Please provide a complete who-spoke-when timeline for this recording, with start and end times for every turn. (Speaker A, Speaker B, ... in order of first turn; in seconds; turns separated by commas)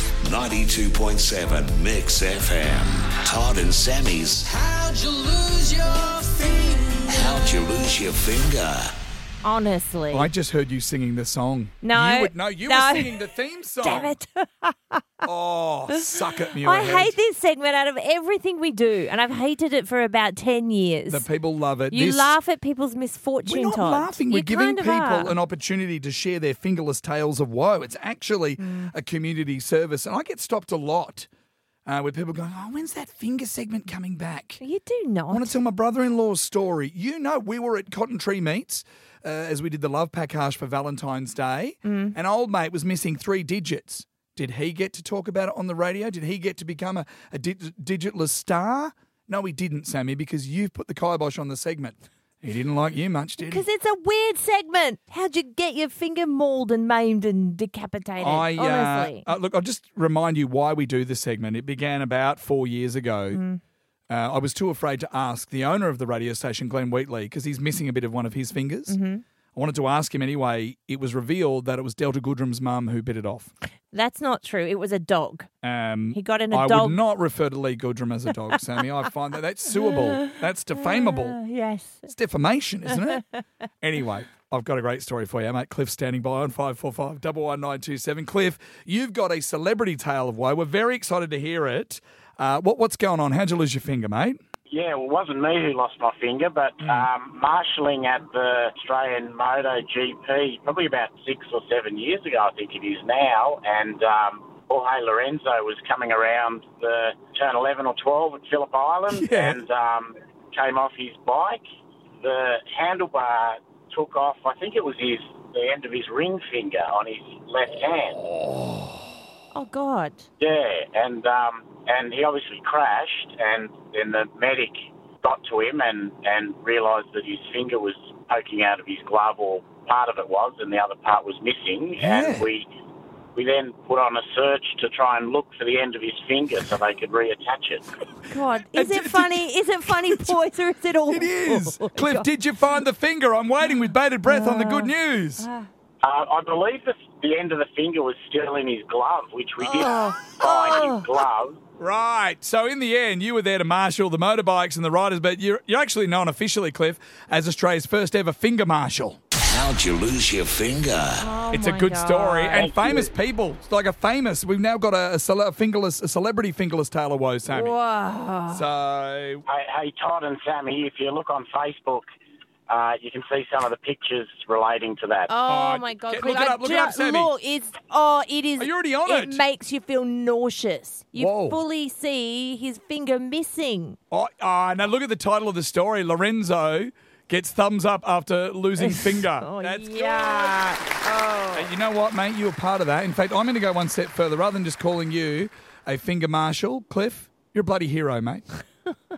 Speaker A: 0.2-4.6, Speaker B: 4.6-7.0, Speaker A: 7.0-8.9, Speaker C: 9.4-10.3, Speaker D: 10.1-14.1, Speaker C: 11.8-13.1, Speaker C: 13.8-15.0, Speaker D: 15.2-17.1, Speaker C: 15.9-21.2, Speaker D: 21.1-22.4, Speaker C: 21.9-25.4, Speaker D: 23.4-31.3, Speaker C: 28.6-28.9, Speaker D: 31.9-34.6, Speaker C: 34.6-35.5, Speaker D: 35.3-53.6, Speaker C: 41.8-42.1, Speaker C: 53.4-59.3, Speaker D: 58.2-63.4, Speaker C: 63.3-63.6, Speaker D: 64.1-69.0, Speaker C: 68.9-69.2, Speaker D: 69.5-73.5, Speaker C: 73.9-75.5, Speaker D: 75.6-81.4, Speaker C: 76.1-77.0, Speaker C: 79.7-82.1, Speaker D: 82.1-83.2, Speaker C: 82.9-83.2, Speaker D: 83.8-94.4, Speaker E: 94.7-111.6, Speaker D: 109.1-109.6, Speaker E: 112.2-118.2, Speaker C: 119.5-120.3, Speaker E: 120.4-132.7, Speaker D: 132.0-132.5, Speaker E: 133.3-137.8, Speaker C: 138.2-142.3, Speaker D: 138.7-140.4, Speaker D: 141.1-145.5, Speaker C: 143.6-145.7, Speaker E: 146.0-151.6, Speaker C: 149.8-151.1, Speaker D: 151.8-159.2, Speaker A: 159.4-161.3, Speaker C: 161.2-162.7, Speaker D: 161.5-167.8, Speaker E: 162.6-163.1, Speaker C: 167.5-168.6, Speaker D: 168.5-169.4, Speaker E: 169.5-172.1, Speaker E: 172.7-175.3, Speaker C: 175.3-184.0, Speaker D: 175.5-177.3, Speaker D: 178.6-179.4, Speaker D: 181.2-181.6, Speaker D: 184.1-190.7, Speaker C: 188.8-191.7, Speaker D: 191.5-198.4